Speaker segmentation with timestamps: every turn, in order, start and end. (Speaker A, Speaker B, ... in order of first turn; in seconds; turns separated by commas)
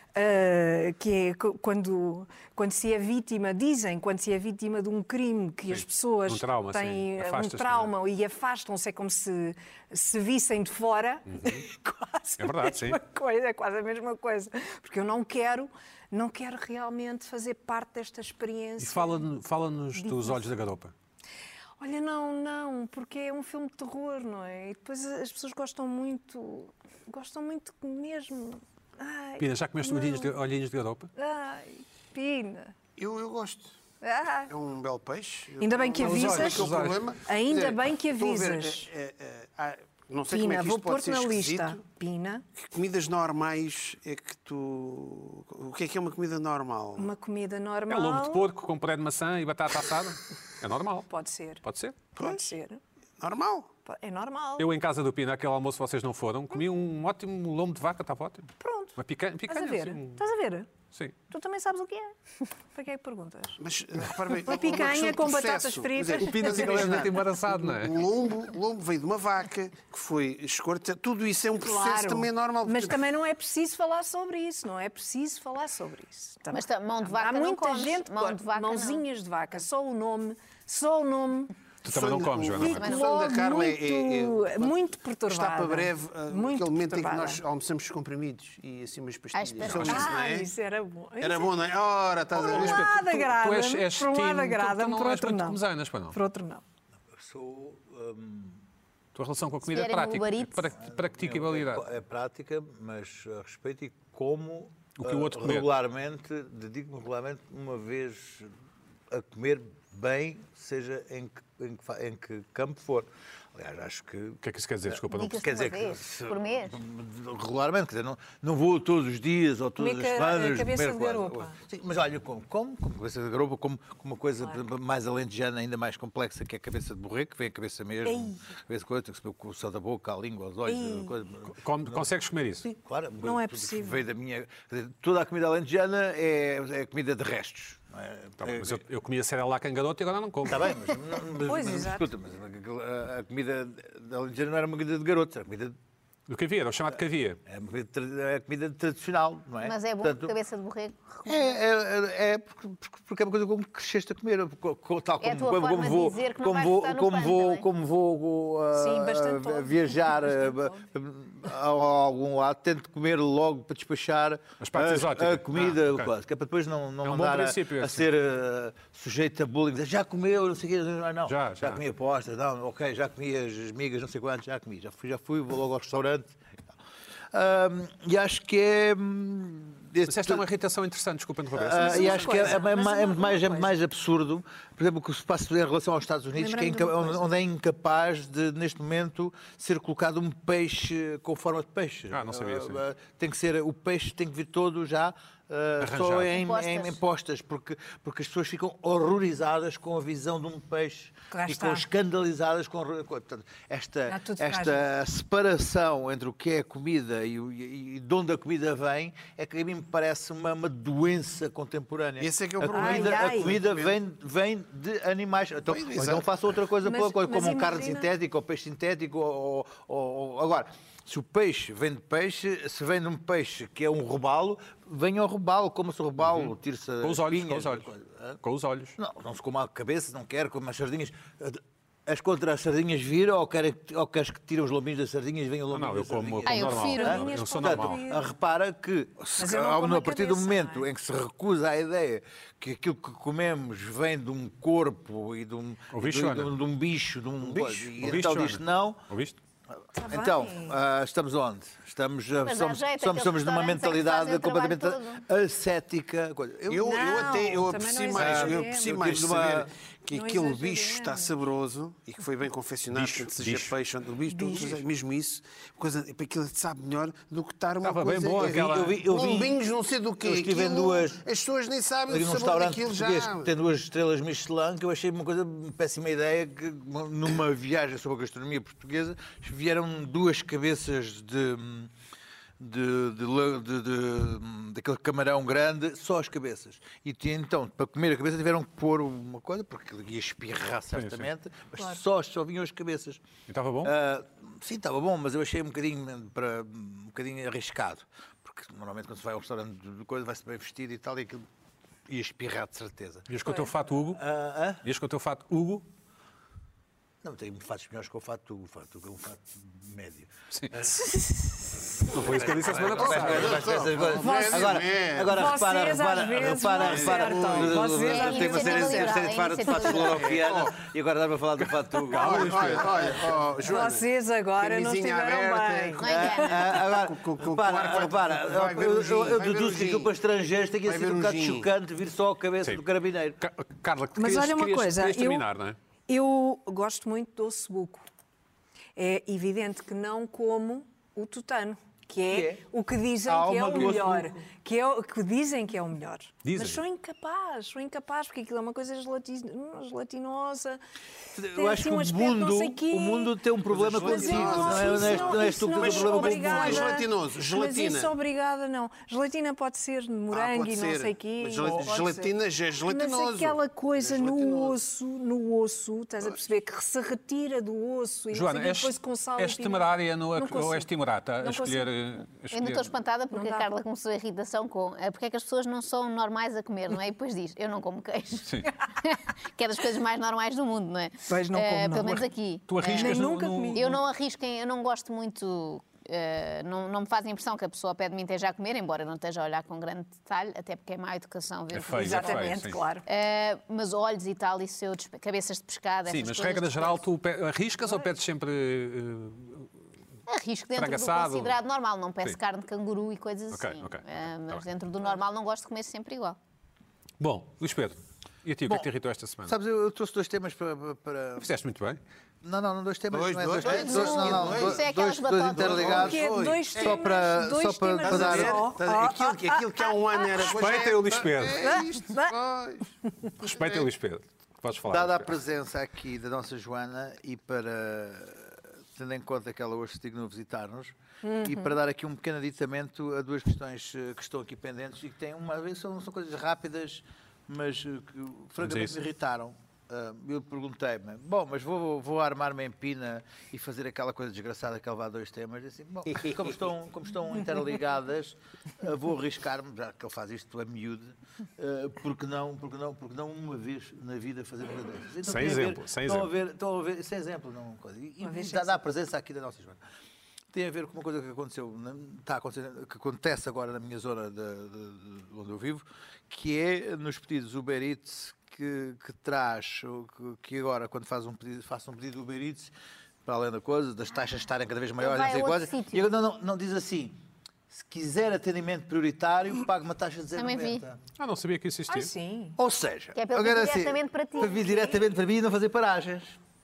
Speaker A: 0.1-19.2, Speaker B: 5.7-7.9, Speaker B: 11.3-11.6, Speaker B: 12.4-13.0, Speaker B: 18.8-20.9, Speaker A: 20.0-20.4, Speaker A: 21.8-30.3, Speaker B: 29.4-31.1, Speaker A: 31.1-32.7, Speaker C: 33.0-33.8, Speaker A: 34.0-34.5, Speaker C: 34.5-41.8, Speaker A: 35.6-38.9, Speaker B: 36.0-37.1, Speaker A: 40.3-42.4, Speaker C: 42.6-47.1, Speaker A: 47.0-48.5, Speaker B: 47.9-51.1, Speaker A: 51.1-51.6, Speaker B: 51.6-52.0, Speaker C: 52.2-52.5, Speaker A: 52.2-52.8, Speaker C: 53.2-53.7, Speaker A: 53.9-54.7, Speaker B: 54.6-60.2, Speaker A: 58.6-60.7, Speaker A: 61.3-62.1, Speaker A: 62.7-63.6, Speaker C: 63.6-73.0, Speaker A: 64.4-67.0, Speaker B: 66.3-68.0, Speaker A: 71.6-81.5, Speaker D: 76.5-79.0, Speaker B: 81.8-83.0, Speaker C: 81.9-90.5, Speaker A: 82.6-87.4, Speaker D: 89.3-90.1, Speaker A: 89.8-91.5, Speaker C: 91.2-92.9, Speaker B: 92.3-96.2, Speaker A: 92.4-95.6, Speaker A: 96.1-96.6, Speaker E: 97.1-98.6, Speaker B: 99.1-101.8, Speaker D: 99.7-100.7, Speaker E: 100.8-108.5, Speaker B: 105.0-105.7, Speaker E: 109.1-132.1, Speaker B: 114.4-115.5, Speaker D: 115.1-116.8, Speaker A: 119.8-121.5, Speaker A: 128.0-128.4, Speaker A: 130.7-131.2, Speaker B: 131.5-132.7, Speaker E: 132.6-138.8, Speaker A: 133.2-134.0, Speaker B: 138.4-140.7, Speaker E: 140.4-145.8, Speaker A: 141.4-142.1, Speaker B: 146.3-147.4, Speaker E: 147.4-150.3, Speaker D: 149.6-151.6, Speaker E: 151.2-176.4, Speaker D: 155.2-157.7, Speaker A: 158.7-160.8, Speaker B: 164.6-166.1, Speaker B: 167.0-168.1, Speaker B: 171.3-171.8, Speaker E: 177.3-180.4, Speaker B: 180.0-182.5, Speaker E: 181.5-228.4, Speaker A: 181.8-183.7, Speaker A: 186.4-187.3, Speaker B: 192.1-192.8, Speaker B: 195.8-196.3, Speaker D: 196.3-197.0, Speaker A: 201.3-201.9, Speaker A: 204.1-204.8, Speaker C: 212.2-213.9, Speaker A: 212.7-213.5, Speaker C: 215.7-216.3, Speaker A: 216.8-218.1, Speaker B: 226.2-228.9, Speaker E: 229.0-249.0, Speaker B: 235.7-238.0, Speaker D: 236.4-237.2, Speaker A: 236.9-238.2, Speaker A: 239.4-240.9, Speaker B: 245.9-246.5, Speaker B: 247.4-249.4, Speaker A: 249.9-250.8, Speaker E: 250.0-257.0, Speaker D: 252.4-255.2, Speaker C: 256.7-273.5, Speaker A: 256.8-259.1, Speaker E: 258.1-259.7, Speaker A: 260.1-261.3, Speaker B: 262.9-263.7, Speaker A: 264.3-264.8, Speaker B: 267.8-269.0, Speaker E: 268.4-269.6, Speaker E: 270.2-271.2, Speaker E: 272.1-281.9, Speaker E: 282.6-293.2, Speaker B: 290.9-291.3, Speaker B: 293.5-293.9, Speaker E: 293.8-301.4, Speaker E: 302.1-303.3, Speaker B: 303.3-304.2, Speaker E: 304.1-304.8, Speaker B: 304.8-305.9, Speaker E: 307.2-311.1, Speaker B: 310.5-310.9, Speaker E: 312.0-323.4, Speaker B: 312.1-313.6, Speaker C: 313.0-315.4, Speaker A: 314.2-314.7, Speaker A: 315.3-319.2, Speaker C: 316.8-318.0, Speaker D: 318.1-320.3, Speaker C: 320.0-320.8, Speaker B: 322.1-322.9, Speaker C: 322.1-324.1, Speaker A: 323.6-326.5, Speaker C: 324.6-330.1, Speaker D: 326.0-326.6, Speaker E: 326.0-333.4, Speaker C: 330.9-331.7, Speaker B: 333.4-335.8, Speaker A: 334.1-335.4, Speaker A: 336.1-338.1, Speaker A: 338.9-350.8, Speaker E: 342.2-342.6, Speaker E: 343.2-344.4, Speaker B: 346.4-346.8, Speaker E: 351.4-357.0, Speaker A: 351.5-362.3, Speaker C: 353.7-358.1, Speaker C: 360.3-364.8, Speaker A: 362.9-370.9, Speaker B: 368.3-372.9, Speaker A: 371.4-371.9, Speaker D: 372.5-383.2, Speaker A: 373.3-373.7, Speaker B: 378.4-378.7, Speaker A: 381.3-382.3, Speaker B: 382.7-384.0, Speaker A: 382.9-383.9, Speaker D: 383.7-392.5, Speaker B: 391.7-392.8, Speaker A: 391.9-393.1, Speaker D: 393.1-397.0, Speaker B: 396.1-399.7, Speaker D: 400.3-406.4, Speaker B: 400.7-401.6, Speaker B: 403.5-404.6, Speaker B: 407.2-409.6, Speaker E: 409.4-411.5, Speaker B: 411.4-412.0, Speaker E: 412.4-418.7, Speaker C: 413.1-414.9, Speaker D: 413.6-416.1, Speaker C: 415.5-417.0, Speaker A: 415.9-420.6, Speaker C: 418.0-422.9, Speaker B: 420.4-421.8, Speaker A: 421.6-422.4, Speaker B: 423.4-425.4, Speaker C: 423.4-423.9, Speaker E: 424.9-459.8, Speaker A: 431.2-431.7, Speaker B: 438.6-439.0, Speaker B: 455.2-456.3, Speaker A: 458.2-458.8, Speaker E: 460.5-472.7, Speaker E: 473.2-477.2, Speaker D: 475.0-476.0, Speaker E: 477.7-481.0, Speaker D: 480.4-480.8, Speaker B: 481.2-482.1, Speaker A: 481.9-482.6, Speaker E: 482.6-486.4, Speaker D: 483.1-485.0